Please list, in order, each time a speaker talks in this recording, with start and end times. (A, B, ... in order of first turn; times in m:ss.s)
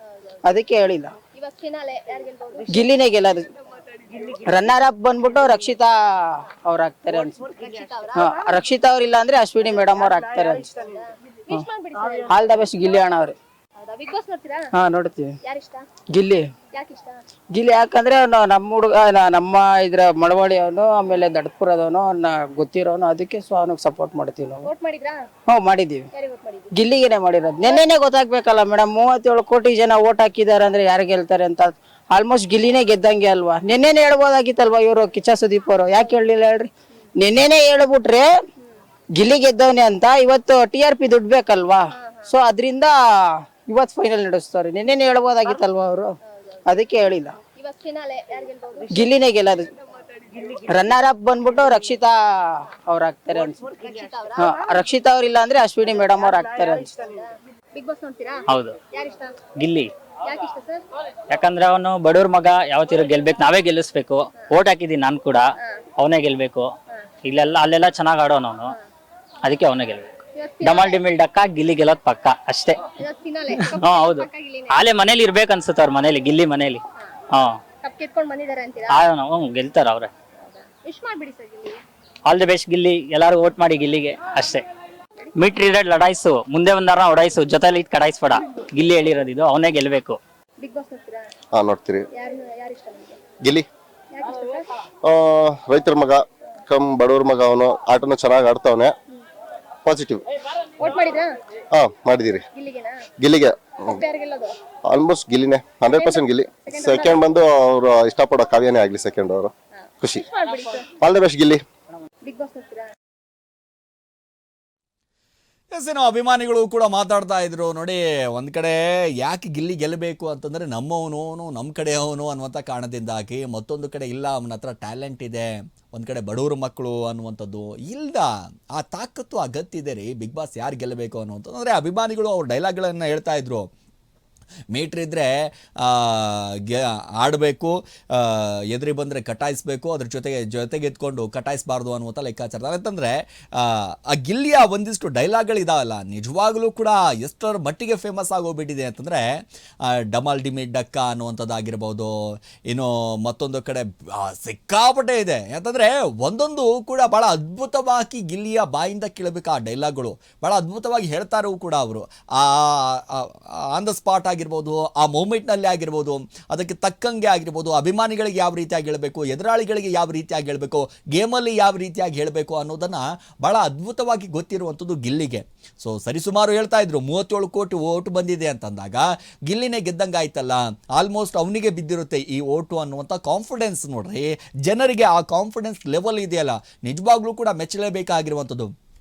0:00.4-0:01.2 A
0:01.3-0:02.9 B
0:02.7-0:03.5 A
0:04.3-0:07.5 A
0:07.4-0:08.3 B
0:08.1-0:10.8 A
0:10.7-0:12.4 B
0:12.2-0:13.4 A
0:13.8-0:14.7 B
0:14.8-0:15.4 A
0:15.4-0:15.8 B
0:16.1-0:16.5 A
0:16.7-0:17.2 B
0:17.5-0:24.7 A
0:24.6-0:25.2 B
0:25.5-0:26.1 A
0:26.1-0:26.7 B
0:26.7-0:38.3 A
0:39.2-0:46.1 A
0:41.9-0:42.3 B
0:46.7-0:47.4 A
0:47.5-0:49.1 B
0:48.9-0:49.7 A
0:50.6-0:53.7 A
0:53.8-0:54.6 B
0:54.4-0:57.0 A
0:56.9-0:59.4 B
0:58.5-0:58.8 C
0:59.6-0:59.9 C
1:00.2-1:00.8 B
1:01.3-1:06.7 C
1:07.2-1:08.7 C
1:09.4-1:10.1 C
1:10.3-1:11.0 B
1:10.6-1:12.9 C
1:13.0-1:14.8 B
1:13.6-1:17.6 C
1:17.8-1:19.0 B
1:18.9-1:20.1 C
1:20.4-1:21.8 B
1:22.2-1:24.6 C
1:25.3-1:30.2 C
1:30.6-1:31.2 B
1:31.5-1:32.1 D
1:32.1-1:33.2 B
1:34.1-1:34.7 B
1:35.0-1:38.9 D
1:39.8-1:40.2 D
1:40.8-1:41.3 B
1:41.7-1:42.4 D
1:42.5-1:43.0 B
1:43.2-1:44.0 D
1:43.9-1:44.5 B
1:44.8-1:50.2 D
1:46.0-1:47.3 B
1:50.0-1:50.9 B
1:51.0-1:51.6 D
1:52.2-1:52.9 B
1:55.7-2:13.7 E
2:14.7-2:29.2 E
2:29.9-2:32.1 E
2:32.6-3:08.7 E